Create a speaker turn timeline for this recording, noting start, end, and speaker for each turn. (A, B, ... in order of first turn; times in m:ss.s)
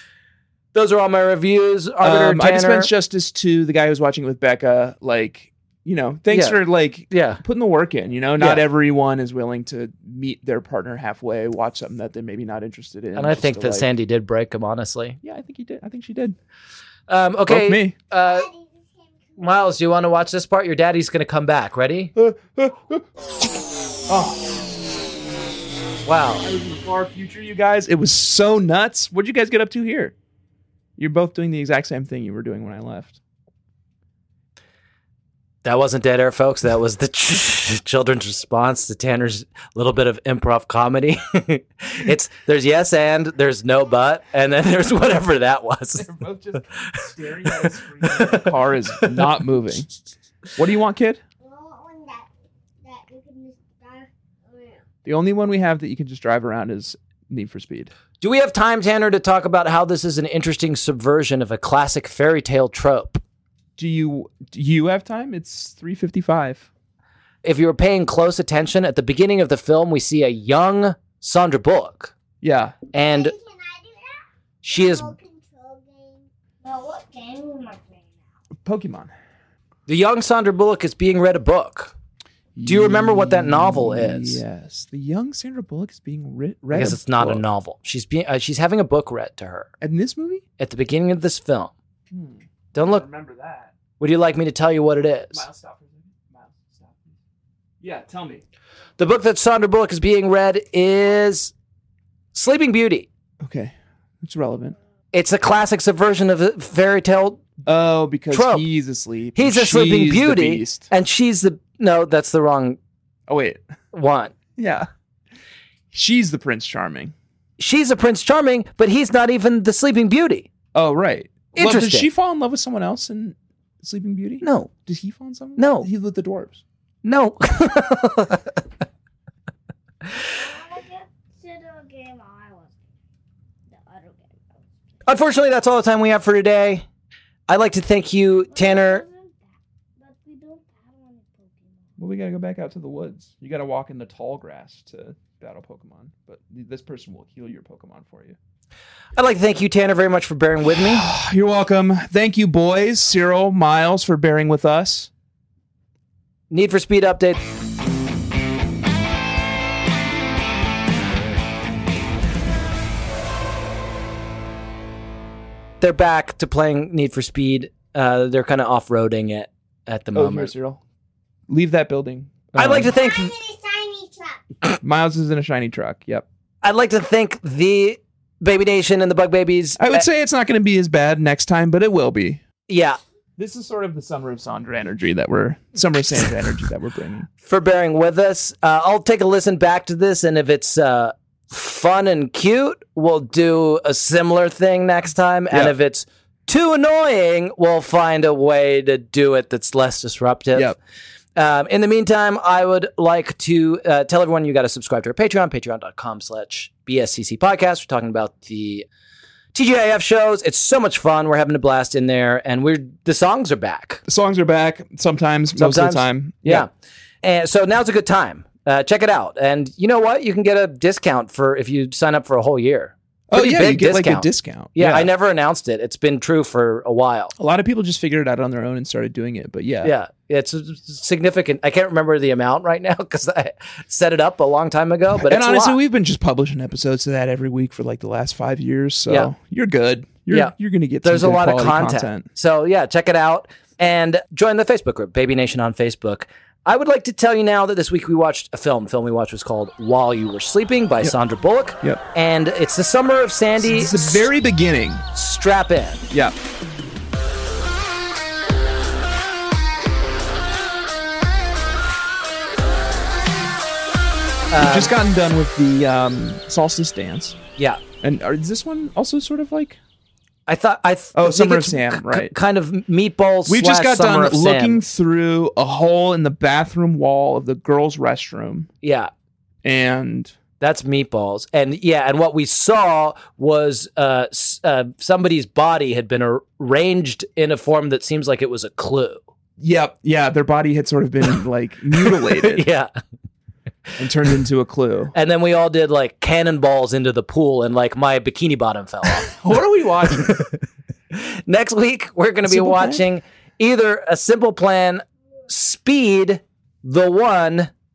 0:00.7-0:02.9 A
0:02.0-0:13.9 B
0:06.3-0:06.6 A
0:07.1-0:07.4 A
0:08.4-0:08.7 A
0:13.2-0:15.2 A
0:15.2-0:16.4 B
0:17.1-0:18.5 A
0:17.5-0:18.0 B
0:18.1-0:19.8 C
0:19.4-0:22.1 A
0:22.2-0:23.5 B
0:24.1-0:24.7 B
0:26.0-0:26.5 A
0:26.4-0:30.2 B
0:31.0-0:33.2 B
0:35.6-0:49.4 A
0:46.0-0:49.9 B
0:50.6-0:51.2 B
0:51.4-0:52.3 C
0:52.8-0:54.8 C
0:55.0-0:57.9 B
0:58.2-1:03.2 A
1:03.8-1:06.7 B
1:07.4-1:12.1 A
1:12.4-1:12.8 B
1:12.9-1:13.3 A
1:13.0-1:18.1 C
1:14.6-1:15.2 A
1:18.6-1:19.1 B
1:19.9-1:21.9 A
1:22.6-1:27.4 B
1:22.6-1:24.4 A
1:26.7-1:29.7 A
1:29.8-1:30.4 B
1:30.6-1:31.7 A
1:32.1-1:33.7 B
1:32.8-1:33.0 A
1:34.0-1:35.5 A
1:35.3-1:37.2 B
1:37.8-1:38.4 B
1:39.0-1:41.5 A
1:42.3-1:43.1 A
1:43.4-1:44.8 B
1:45.1-1:47.6 A
1:47.6-1:50.9 B
1:48.3-1:48.7 A
1:49.4-1:52.8 A
1:53.3-1:53.6 B
1:53.9-1:54.3 A
1:54.6-1:54.9 B
1:55.9-1:57.1 B
1:57.6-2:00.5 A
2:00.7-2:06.6 B
2:01.6-2:02.1 A
2:04.4-2:04.7 A
2:05.6-2:05.9 A
2:07.0-2:08.6 A
2:10.2-2:12.8 C
2:13.7-2:14.6 C
2:15.1-2:16.8 A
2:17.5-2:19.0 A
2:18.5-2:19.4 C
2:20.0-2:21.9 C
2:22.0-2:28.4 B
2:29.2-2:31.1 A
2:30.7-2:35.1 B
2:36.5-2:37.4 A
2:45.8-2:50.5 A
2:50.1-2:50.8 B
2:51.5-2:53.0 B
2:52.6-2:53.3 A
2:52.9-2:54.4 C
2:54.8-2:56.3 B
2:56.6-3:00.0 A
2:59.8-3:02.4 B
3:02.7-3:03.0 A
3:03.4-3:07.3 B
3:07.4-3:20.7 A
3:21.4-3:28.9 A
3:29.5-3:34.0 A
3:34.1-3:36.7 B
3:35.6-3:36.7 A
3:37.2-3:47.3 A
3:43.3-3:45.1 B
3:47.4-3:49.9 B
3:49.8-3:55.8 A
3:55.2-4:02.3 B
4:00.3-4:14.3 A
4:13.6-4:15.0 B
4:15.1-4:16.0 A
4:16.1-4:16.4 B
4:24.5-4:24.9 A
4:24.6-4:27.4 B
4:28.0-4:29.8 B
4:30.5-4:34.8 A
4:31.1-4:32.4 B
4:33.5-4:38.7 B
4:38.8-4:39.1 A
4:39.6-4:40.4 B
4:40.6-4:49.2 A
4:49.6-4:52.6 B
4:52.0-4:52.9 A
4:54.0-4:55.1 B
4:55.1-4:59.3 A
4:59.2-5:00.5 B
5:00.2-5:00.5 A
5:01.1-5:07.7 A
5:02.5-5:03.0 B